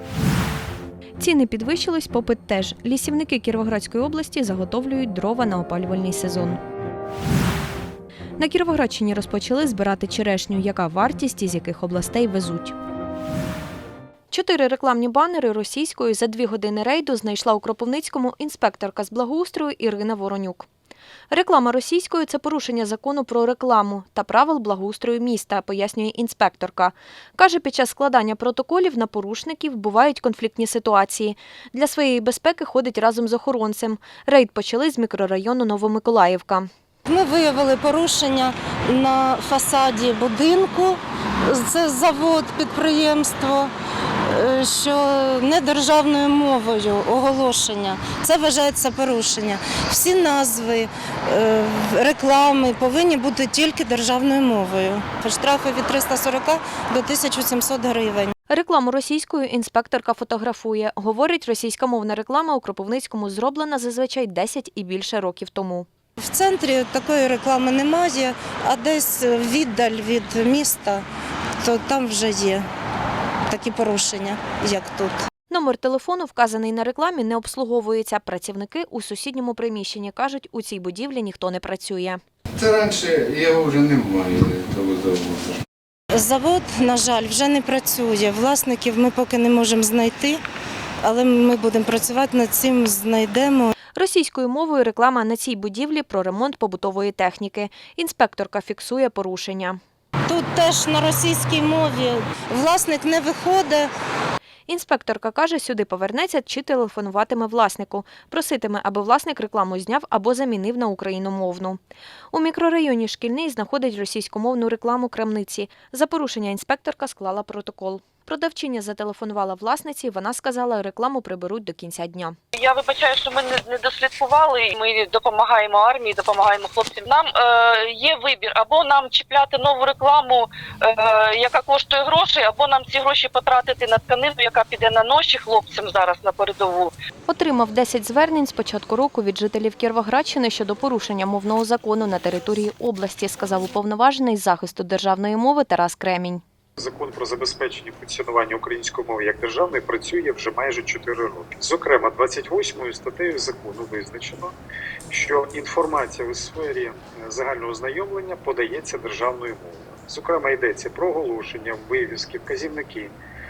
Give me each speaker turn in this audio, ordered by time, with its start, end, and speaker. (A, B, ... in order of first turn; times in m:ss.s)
0:01.2-0:06.6 A
0:08.4-0:12.8 A
0:14.3-0:20.7 A
0:21.3-0:36.7 A
0:37.1-0:43.7 B
0:44.3-0:58.3 B
0:58.5-1:05.9 A
1:06.2-1:11.0 B
1:11.6-1:12.7 B
1:13.5-1:15.3 B
1:15.5-1:22.2 A
1:22.7-1:25.2 C
1:26.1-1:30.4 B
1:31.0-1:33.7 B
1:34.0-1:39.8 A
1:40.3-1:43.9 B
1:44.7-1:51.8 A
1:52.3-2:02.4 A
2:05.2-2:05.5 D
2:06.3-2:07.0 D
2:08.1-2:10.3 D
2:11.4-2:14.8 D
2:15.6-2:16.8 D
2:17.3-2:26.4 A
2:26.8-2:34.5 E
2:35.1-2:43.1 E